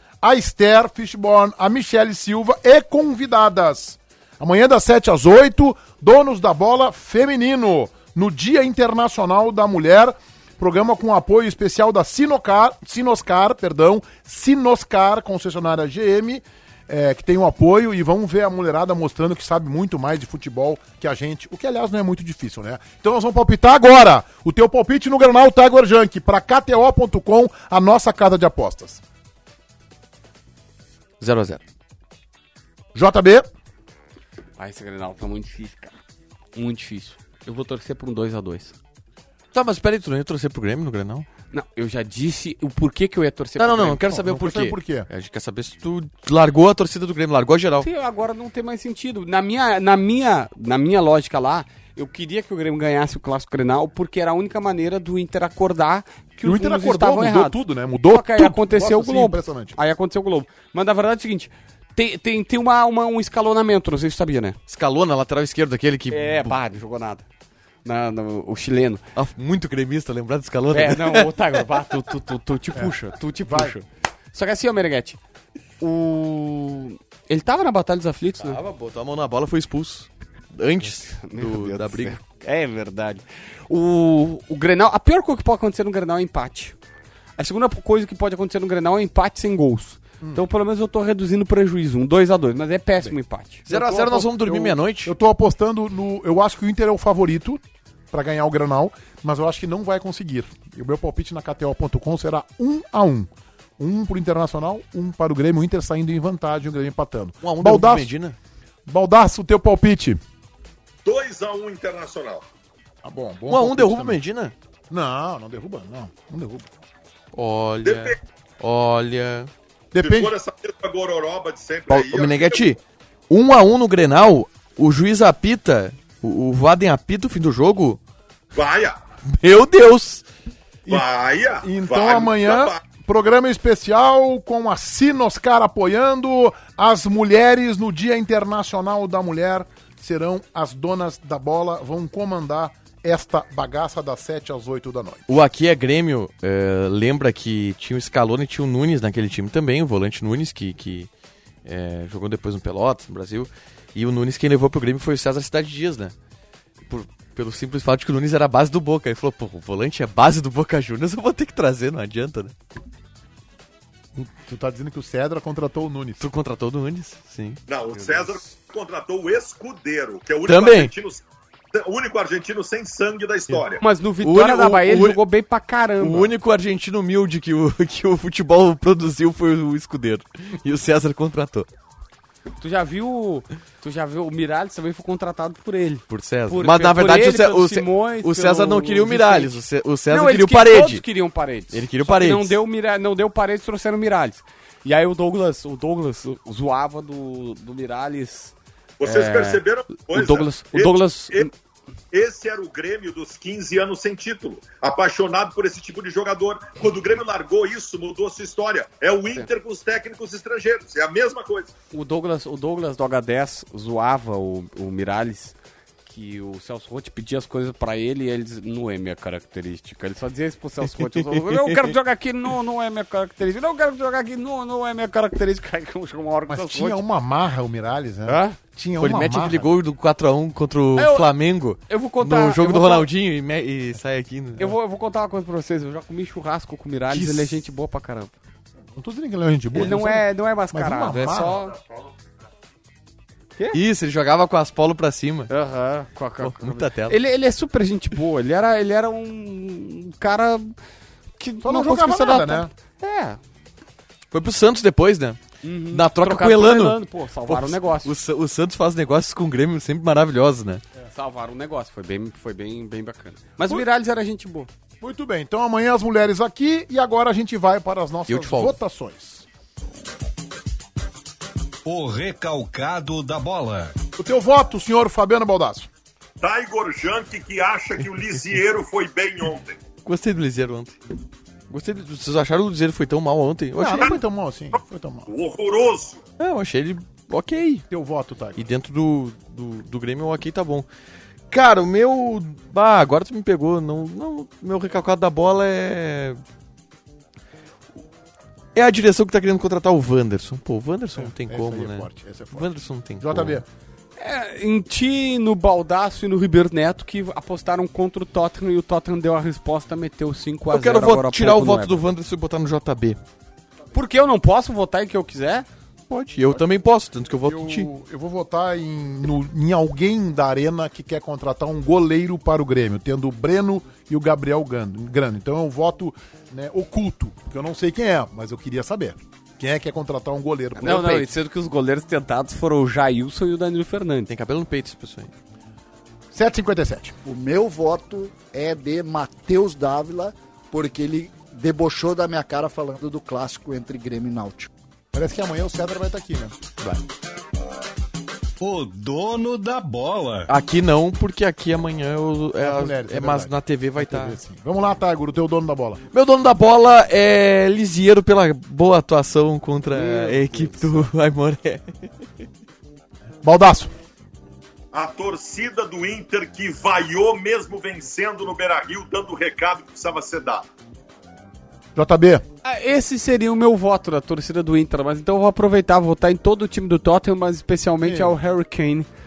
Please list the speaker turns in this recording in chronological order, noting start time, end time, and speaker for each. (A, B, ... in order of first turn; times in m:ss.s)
0:00.2-0:29.0 A
0:31.2-0:31.6 B
0:32.9-0:33.5 A
0:34.6-0:36.0 C
0:36.6-0:38.8 C
0:39.5-0:41.3 B
0:41.5-0:44.1 C
0:43.6-0:47.9 B
0:44.0-0:45.1 A
0:47.8-1:04.6 C
0:56.4-0:59.8 A
1:04.7-1:06.6 B
1:06.1-1:07.3 C
1:07.8-1:09.0 C
1:09.2-1:11.3 B
1:10.7-1:15.2 C
1:12.8-1:13.8 A
1:15.8-1:18.6 C
1:18.4-1:22.2 B
1:20.9-1:26.8 C
1:27.4-1:33.7 C
1:33.7-1:35.1 B
1:33.7-1:48.1 A
1:47.4-1:48.4 B
1:48.9-1:50.2 A
1:51.0-1:52.4 D
1:53.0-1:54.2 A
1:53.5-1:54.5 B
1:54.9-1:56.7 A
1:57.3-1:59.5 B
1:57.8-1:58.2 D
1:59.9-2:00.3 A
2:00.0-2:02.7 D
2:01.9-2:02.8 B
2:03.3-2:08.0 B
2:08.5-2:09.0 D
2:09.4-2:10.2 B
2:10.9-2:12.8 D
2:11.6-2:25.4 A
2:25.3-2:31.1 B
2:31.6-2:36.1 B
2:36.9-2:42.6 B
2:44.2-2:46.3 A
2:46.2-2:47.6 B
2:47.7-2:53.8 D
2:50.5-2:50.9 B
2:53.8-2:56.3 C
2:54.2-2:55.2 B
2:56.0-3:01.7 B
3:02.6-3:21.5 C
3:06.1-3:11.0 B
3:11.7-3:12.6 B
3:19.0-3:21.5 D
3:22.1-3:31.7 D
3:31.9-3:47.0 C
3:41.3-3:41.8 B
3:46.5-3:49.7 A
3:48.3-3:48.6 C
3:49.0-3:54.7 B
3:51.0-3:51.3 C
3:51.9-3:53.1 C
3:54.6-3:58.3 C
3:59.0-4:01.7 A
3:59.7-4:01.7 C
4:03.7-4:05.5 B
4:05.5-4:10.7 C
4:06.4-4:07.2 B
4:11.4-4:13.4 C
4:11.6-4:12.7 A
4:14.3-4:15.4 B
4:15.6-4:18.1 C
4:15.9-4:20.8 B
4:21.0-4:24.7 C
4:25.0-4:29.5 A
4:28.3-4:28.8 B
4:31.9-4:33.9 E
4:34.2-4:35.9 A
4:36.4-4:39.8 D
4:40.0-4:41.0 B
4:41.7-4:44.2 B
4:43.8-4:45.3 A
4:45.3-4:46.2 D
4:46.4-4:47.8 B
4:47.9-4:48.7 A
4:48.6-4:50.9 B
4:51.5-4:56.4 B
4:58.8-5:03.6 B
5:01.2-5:03.7 A
5:04.2-5:12.0 C
5:10.7-5:13.2 B
5:13.9-5:15.7 C
5:16.1-5:17.9 B
5:17.4-5:31.3 A
5:30.8-5:34.3 C
5:34.3-5:35.3 B
5:36.3-5:37.2 A
5:37.2-5:44.7 F
5:45.1-5:46.8 A
5:48.6-5:50.5 E
5:50.5-5:54.4 B
5:52.6-5:56.0 A
5:56.1-6:01.9 B
5:59.9-6:01.1 C
6:03.4-6:03.9 A
6:04.9-6:10.7 D
6:12.0-6:12.4 A
6:12.6-6:19.1 C
6:18.0-6:18.4 A